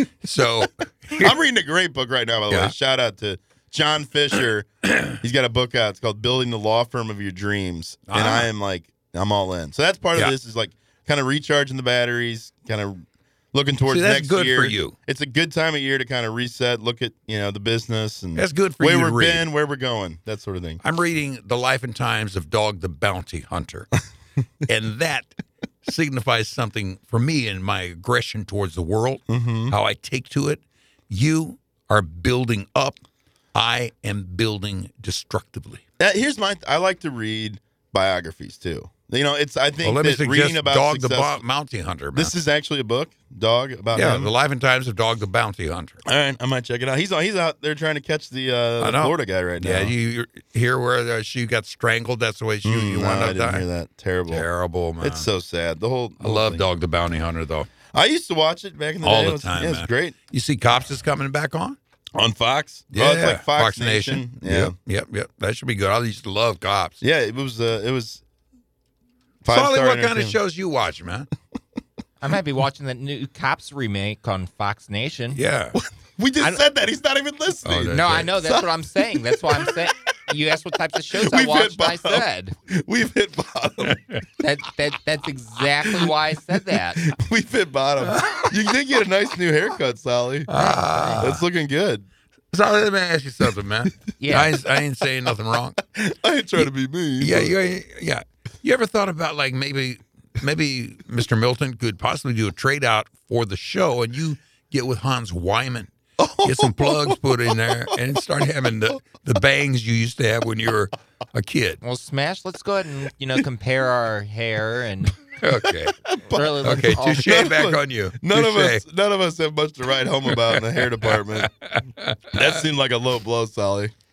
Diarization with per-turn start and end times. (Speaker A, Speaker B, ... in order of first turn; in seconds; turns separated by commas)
Speaker A: 0.2-1.3, Speaker B: 1.1-20.8, Speaker A: 8.1-8.5, Speaker A: 13.9-14.9, Speaker A: 18.4-19.5, Speaker A: 20.8-23.9, Speaker A: 24.6-25.3, Speaker A: 25.9-33.0, Speaker B: 29.3-29.8, Speaker A: 33.5-35.8, Speaker B: 36.0-41.4, Speaker A: 39.8-42.3, Speaker B: 42.1-44.3, Speaker A: 43.9-46.0, Speaker B: 46.1-49.9, Speaker A: 48.8-53.7, Speaker B: 52.6-54.5, Speaker A: 54.3-55.3, Speaker B: 55.0-56.7, Speaker A: 56.2-57.7, Speaker B: 57.9-60.2, Speaker A: 59.0-61.8, Speaker B: 62.1-64.8, Speaker A: 62.9-67.0, Speaker B: 67.0-68.2, Speaker B: 69.4-70.4, Speaker A: 69.5-71.3, Speaker C: 72.2-75.4, Speaker A: 75.3-75.8, Speaker B: 75.7-79.9, Speaker A: 77.7-78.3, Speaker C: 77.9-82.5, Speaker B: 81.2-84.2, Speaker A: 83.8-84.2, Speaker C: 84.4-87.0, Speaker B: 85.8-86.1, Speaker B: 87.0-90.5, Speaker A: 88.0-88.5, Speaker A: 90.5-91.4, Speaker C: 90.5-91.2, Speaker B: 91.2-92.0, Speaker A: 92.5-95.8, Speaker C: 94.2-94.5, Speaker B: 95.8-97.5, Speaker A: 97.2-105.9, Speaker B: 106.2-107.6, Speaker A: 106.4-111.8, Speaker C: 111.8-115.2, Speaker A: 115.4-116.0, Speaker B: 116.0-121.5, Speaker C: 116.3-117.3, Speaker A: 116.6-118.8, Speaker A: 120.3-122.4, Speaker B: 122.3-123.9